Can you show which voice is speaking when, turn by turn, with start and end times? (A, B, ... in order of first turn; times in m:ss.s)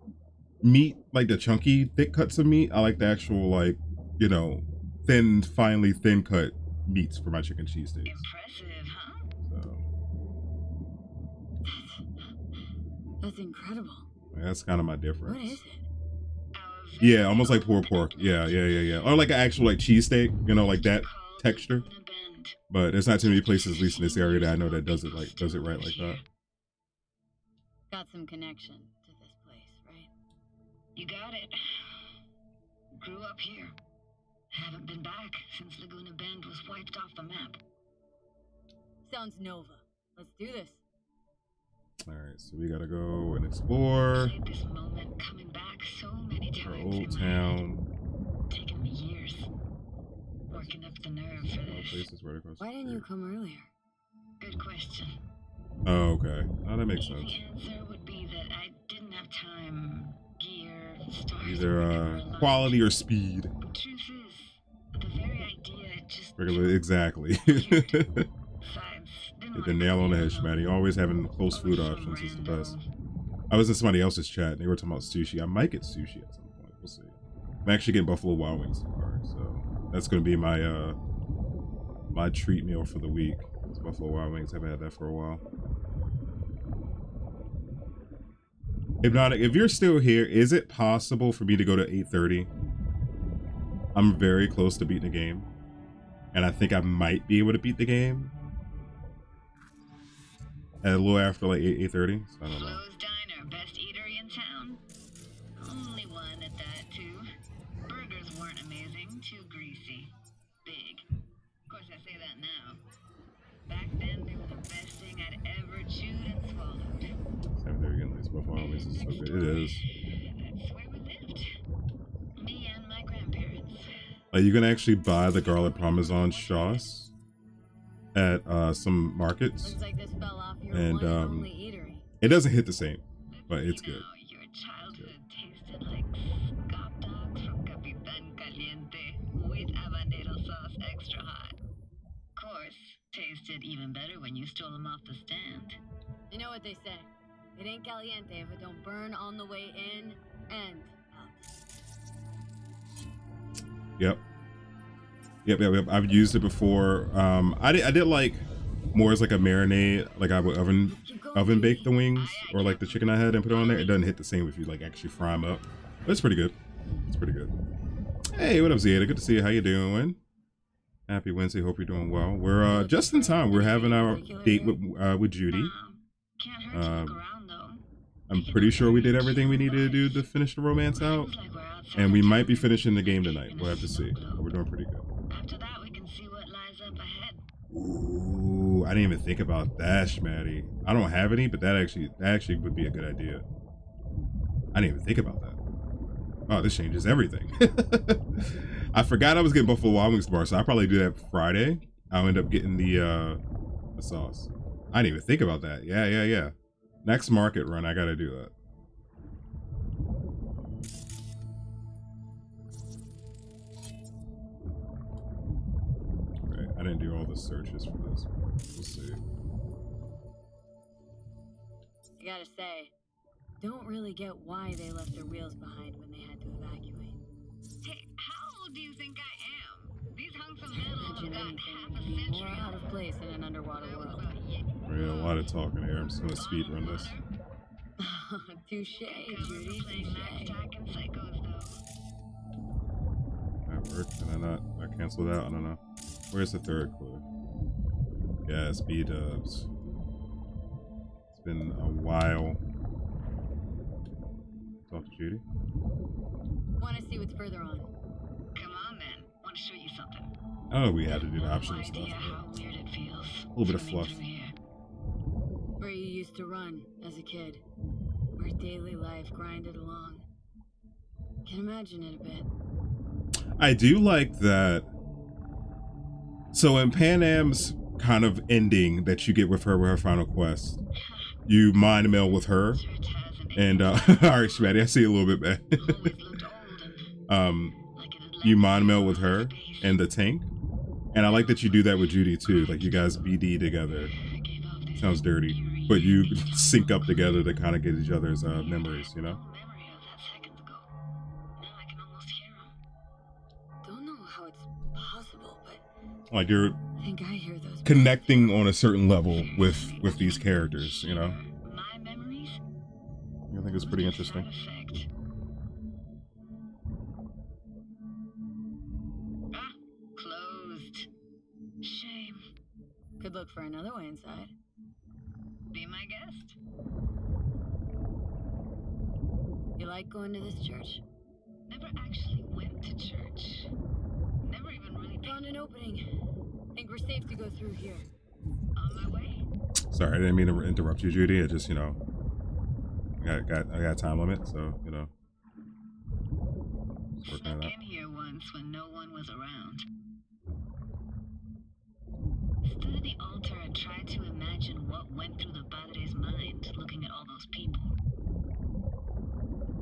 0:00.6-0:08.2 A
0:08.0-0:09.3 B
0:09.4-0:09.8 A
0:11.6-0:12.0 C
0:13.2-0:14.1 C
0:14.3-0:15.6 A
0:15.2-0:15.8 C
0:16.5-0:19.1 B
0:17.0-0:21.9 A
0:20.7-0:22.6 B
0:22.7-0:26.2 A
0:23.2-0:26.2 B
0:27.9-0:30.1 C
0:31.0-0:32.1 B
0:33.0-0:33.8 B
0:34.5-0:37.6 B
0:39.1-0:40.8 C
0:42.1-0:44.4 A
0:44.1-0:47.6 B
0:46.6-0:47.9 A
0:48.5-0:49.5 B
0:50.5-0:52.1 B
0:51.3-0:53.0 A
0:52.6-0:53.7 C
0:54.4-0:55.2 B
0:55.8-0:57.4 A
0:57.0-1:03.0 B
1:01.4-1:03.5 A
1:03.6-1:06.8 B
1:06.4-1:08.3 A
1:07.4-1:08.1 B
1:08.6-1:10.8 B
1:09.5-1:12.8 A
1:11.5-1:12.8 B
1:13.5-1:17.1 A
1:17.6-1:21.0 A
1:22.1-1:25.4 A
1:29.0-1:32.5 A
1:33.9-1:35.5 A
1:36.3-1:38.3 A
1:40.8-1:42.8 A
1:42.4-1:44.8 B
1:45.6-1:47.3 B
1:47.9-1:50.1 B
1:50.6-1:51.0 B
1:51.7-1:52.8 B
1:53.7-1:57.1 B
1:57.6-1:59.8 A
1:58.6-2:01.5 B
2:02.4-2:03.9 B
2:04.3-2:07.1 A
2:05.0-2:07.0 B
2:08.1-2:09.8 A
2:09.6-2:12.0 C
2:10.7-2:11.5 A
2:12.2-2:14.1 A
2:13.3-2:21.6 B
2:14.9-2:15.2 A
2:22.4-2:25.8 B
2:26.3-2:31.4 C
2:35.4-2:47.5 A
2:40.9-2:42.0 C
2:42.1-2:44.0 B
2:48.4-2:50.2 A
2:51.1-2:55.7 A
2:52.6-2:54.8 C
2:55.5-3:00.3 B
2:56.7-2:57.2 A
2:58.3-3:01.3 A
3:00.9-3:04.5 B
3:01.9-3:05.0 A
3:05.3-3:07.4 B
3:07.7-3:13.4 A
3:14.7-3:15.6 A
3:16.5-3:23.4 A
3:24.0-3:28.5 A
3:36.4-3:39.2 A
3:42.2-3:42.9 C
3:43.6-3:47.2 C
3:47.8-3:53.0 B
3:50.7-3:54.4 C
3:53.8-3:55.5 B
3:54.9-3:57.2 A
3:56.4-3:57.3 B
3:58.0-4:00.6 C
3:59.1-4:01.8 B
4:03.7-4:05.8 A
4:06.3-4:07.2 A
4:08.5-4:09.7 A
4:11.3-4:12.6 A
4:14.9-4:15.4 A
4:16.8-4:17.9 C
4:18.6-4:20.3 B
4:20.7-4:22.6 A
4:21.1-4:24.5 B
4:23.6-4:24.2 A
4:25.8-4:27.6 C
4:28.4-4:30.3 C
4:31.4-4:32.5 C
4:33.6-4:34.9 A
4:36.5-4:40.8 A
4:41.0-4:41.5 B
4:41.5-4:42.8 A
4:42.7-4:44.9 B
4:43.6-4:46.2 A
4:45.7-4:47.1 B
4:47.3-4:47.8 A
4:47.8-4:50.0 B
4:48.4-4:50.5 A
4:51.1-4:54.1 A
4:51.2-4:53.4 B
4:54.1-4:57.4 B
4:55.0-4:59.4 A
4:58.4-5:00.9 B
5:01.6-5:02.8 B
5:03.8-5:05.8 C
5:06.3-5:06.8 A
5:07.0-5:08.5 C
5:07.8-5:11.4 A
5:09.3-5:12.6 B
5:13.5-5:14.5 A
5:13.8-5:15.1 B
5:19.5-5:21.1 B
5:21.8-5:22.4 B
5:23.2-5:24.5 C
5:25.7-5:26.6 B
5:29.8-5:31.0 C
5:31.7-5:33.7 B
5:34.4-5:35.4 B
5:35.2-5:36.0 C
5:36.8-5:38.1 C
5:38.8-5:39.5 B
5:39.9-5:42.0 A
5:43.2-5:45.1 A
5:47.2-5:47.7 A
5:47.2-5:49.9 B
5:52.6-5:58.0 B